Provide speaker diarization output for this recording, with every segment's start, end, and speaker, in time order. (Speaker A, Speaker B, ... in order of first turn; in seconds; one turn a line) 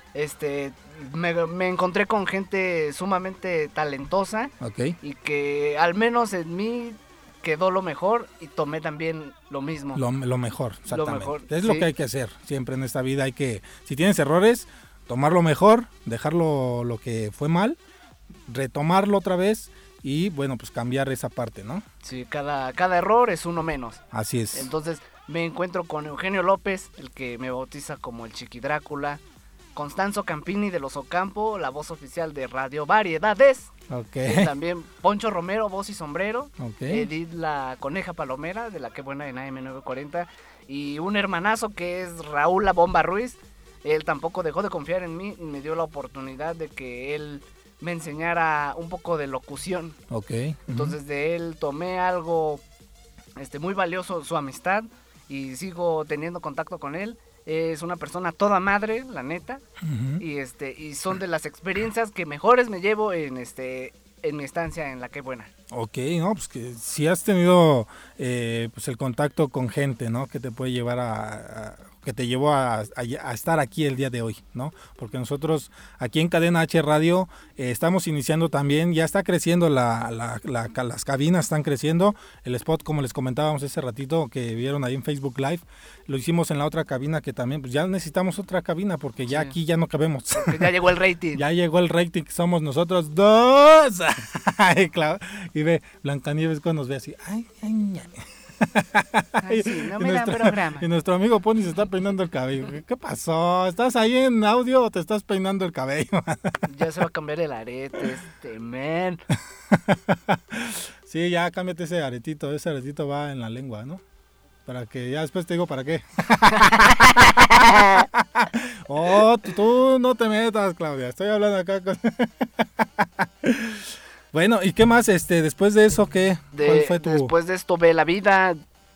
Speaker A: 0.1-10.0
Speaker B: 4.6-5.0
Speaker B: 9.9-17.8
Speaker A: 10.9-11.9
Speaker B: 18.5-21.9
Speaker A: 22.0-24.0
Speaker B: 24.1-24.7
Speaker A: 24.5-29.2
Speaker A: 29.8-33.7
Speaker B: 33.9-34.5
Speaker A: 34.2-50.0
Speaker B: 36.6-37.1
Speaker B: 50.1-51.0
Speaker A: 50.7-52.6
Speaker A: 53.4-59.6
Speaker B: 59.8-60.2
Speaker A: 60.2-65.5
Speaker B: 65.7-90.7
Speaker A: 89.3-89.5
Speaker A: 90.3-91.4
Speaker B: 91.3-106.6
Speaker A: 99.4-100.9
Speaker A: 106.7-109.2
Speaker B: 109.7-114.0
Speaker B: 114.7-127.3
Speaker A: 116.5-118.0
Speaker A: 126.5-128.6